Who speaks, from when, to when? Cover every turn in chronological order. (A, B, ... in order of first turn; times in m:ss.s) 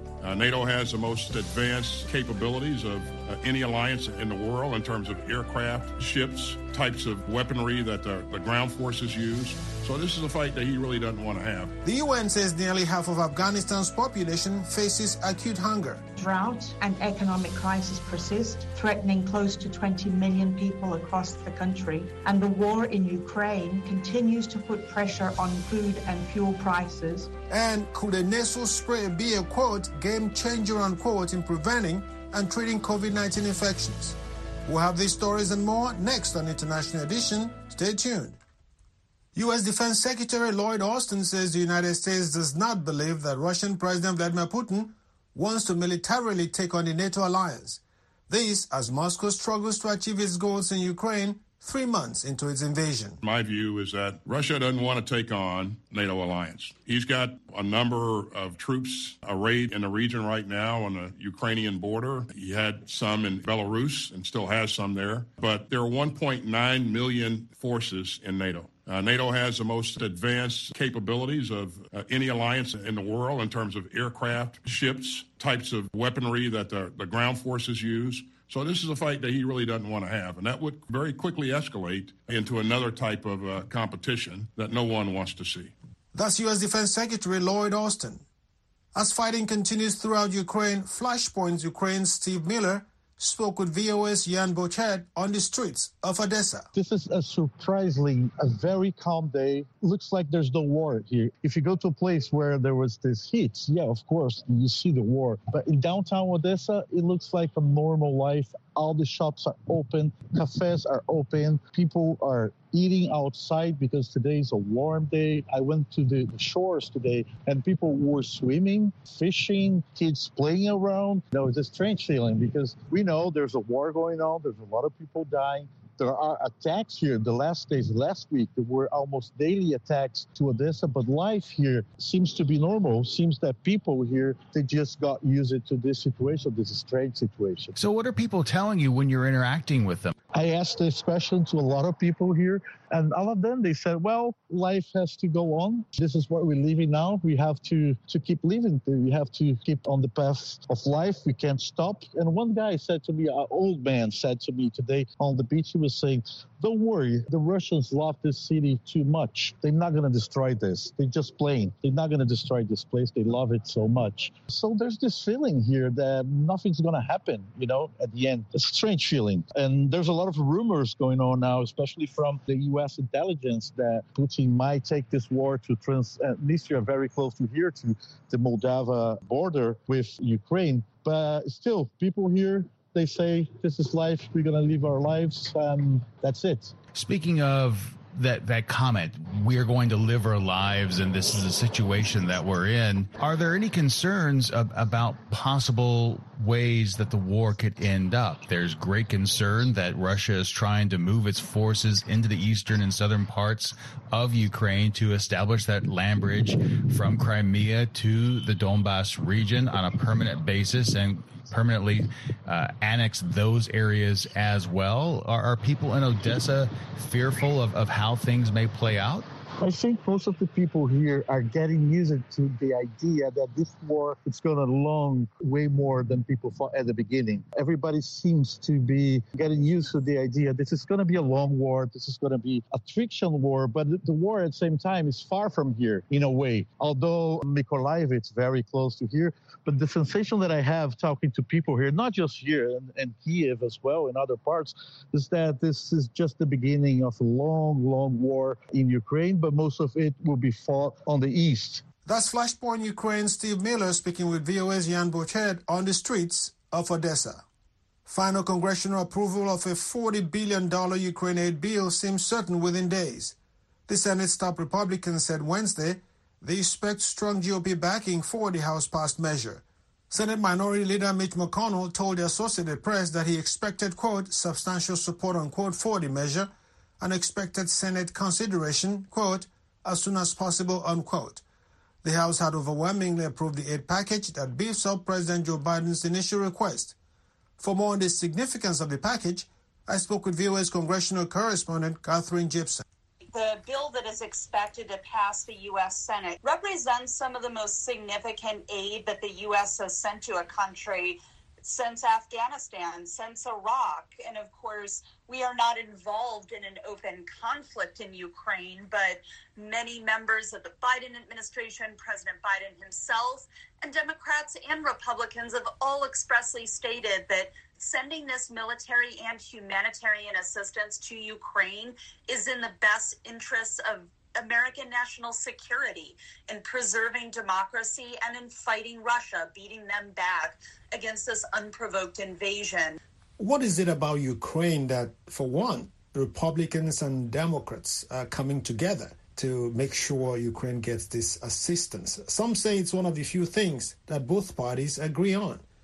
0:00.2-0:11.8 A
0:11.8-0:16.0 B
0:16.2-0:27.3 C
0:27.5-0:38.4 B
0:39.3-0:53.2 B
0:53.2-1:25.7 A
1:26.1-1:28.2 B
1:28.9-1:36.7 B
1:36.7-2:17.7 D
2:17.7-2:20.1 E
2:20.3-3:06.8 D
3:06.9-3:39.3 E
3:39.6-4:11.8 D
4:12.0-4:17.4 B
4:18.1-4:23.4 B
4:23.9-4:41.4 B
4:42.0-4:46.9 B
4:47.6-4:52.8 B
4:53.3-5:33.0 F
5:33.4-5:45.6 B